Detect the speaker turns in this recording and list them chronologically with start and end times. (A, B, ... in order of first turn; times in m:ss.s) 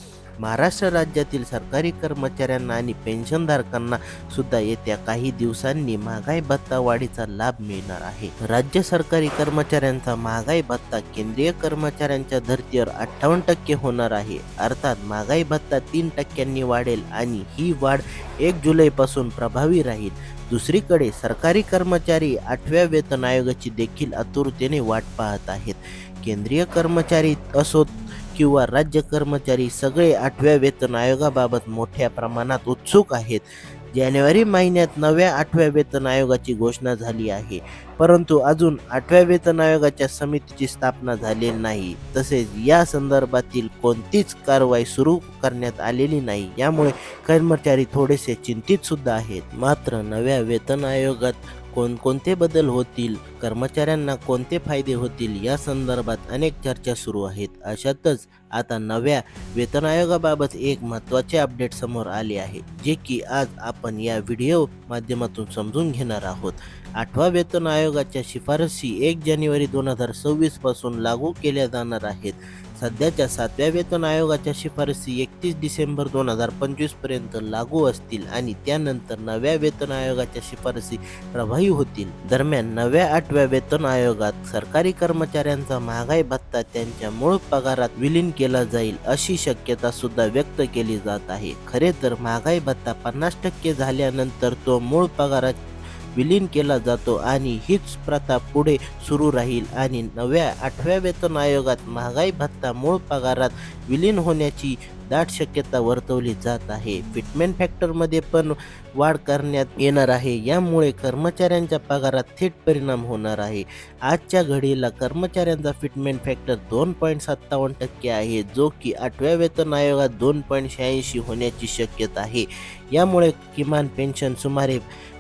0:00.4-0:33.4 A
0:33.9-1:35.6 A
1:36.2-2:04.8 A